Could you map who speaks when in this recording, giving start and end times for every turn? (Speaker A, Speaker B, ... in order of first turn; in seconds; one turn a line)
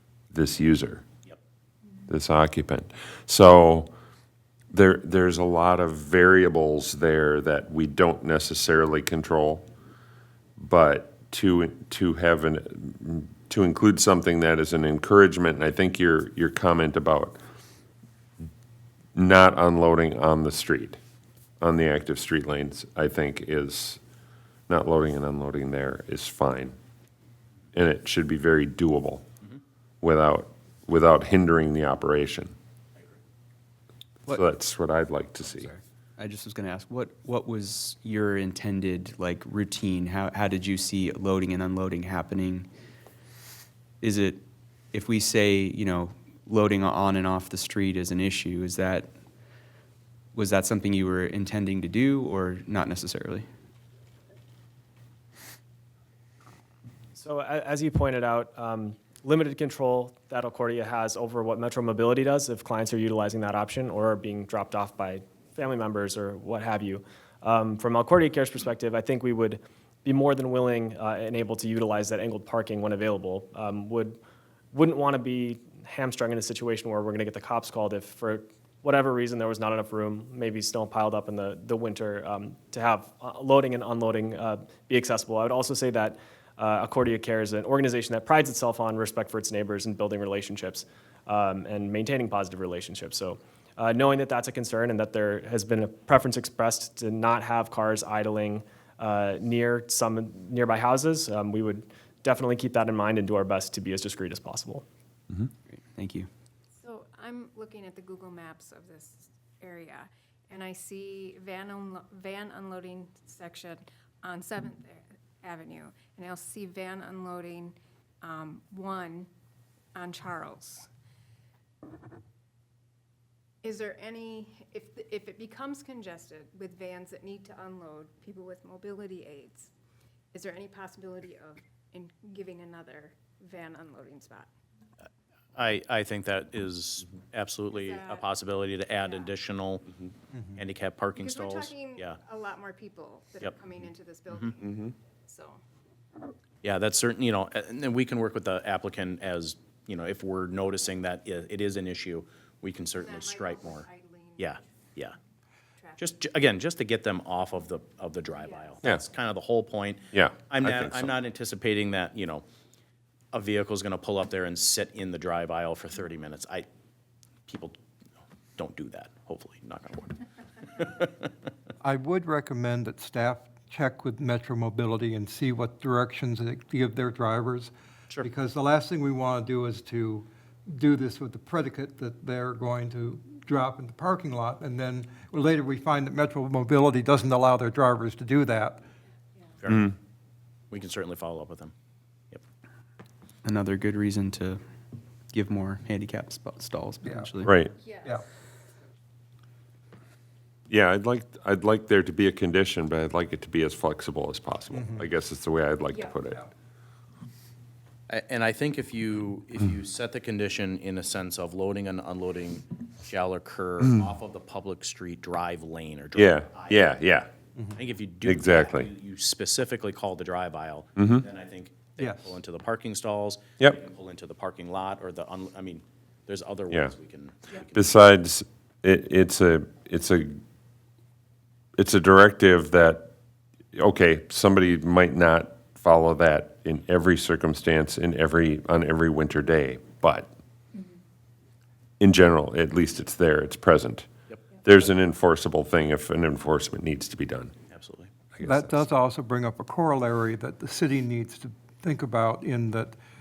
Speaker A: 0.3-1.1
Speaker A: 2.1-3.9
Speaker A: 4.7-9.7
Speaker A: 10.6-17.4
Speaker A: 19.1-21.0
Speaker A: 21.6-24.0
Speaker A: 24.7-26.8
Speaker A: 27.7-29.2
Speaker A: 30.0-32.5
Speaker A: 34.3-35.7
Speaker B: 35.6-42.7
Speaker B: 44.0-49.1
Speaker B: 50.4-53.5
Speaker C: 57.2-74.2
Speaker C: 74.7-104.8
Speaker B: 105.7-106.3
Speaker D: 106.8-119.3
Speaker D: 120.0-120.9
Speaker D: 123.6-129.7
Speaker D: 130.3-134.5
Speaker E: 135.6-139.9
Speaker D: 137.7-138.3
Speaker D: 139.0-139.3
Speaker E: 140.6-142.2
Speaker D: 141.2-145.6
Speaker E: 146.6-153.9
Speaker D: 152.9-154.6
Speaker E: 154.4-155.1
Speaker D: 155.8-156.1
Speaker E: 156.0-162.4
Speaker D: 158.4-159.0
Speaker A: 160.1-161.1
Speaker E: 163.3-166.7
Speaker E: 167.5-167.8
Speaker E: 168.6-171.3
Speaker F: 171.8-188.8
Speaker E: 189.6-189.9
Speaker E: 190.7-191.7
Speaker B: 193.4-194.6
Speaker B: 195.3-197.6
Speaker F: 197.0-197.3
Speaker A: 197.4-197.7
Speaker D: 197.8-198.2
Speaker A: 200.7-206.4
Speaker F: 204.7-205.1
Speaker D: 205.9-206.2
Speaker E: 208.1-216.9
Speaker A: 216.2-217.3
Speaker E: 217.8-228.0
Speaker A: 218.2-218.9
Speaker A: 221.0-221.2
Speaker F: 222.0-222.3
Speaker A: 227.7-230.4
Speaker A: 231.8-233.1
Speaker A: 233.7-240.3
Speaker A: 242.0-244.1
Speaker A: 244.6-247.5
Speaker E: 247.7-248.1
Speaker A: 248.3-248.9
Speaker F: 248.4-253.0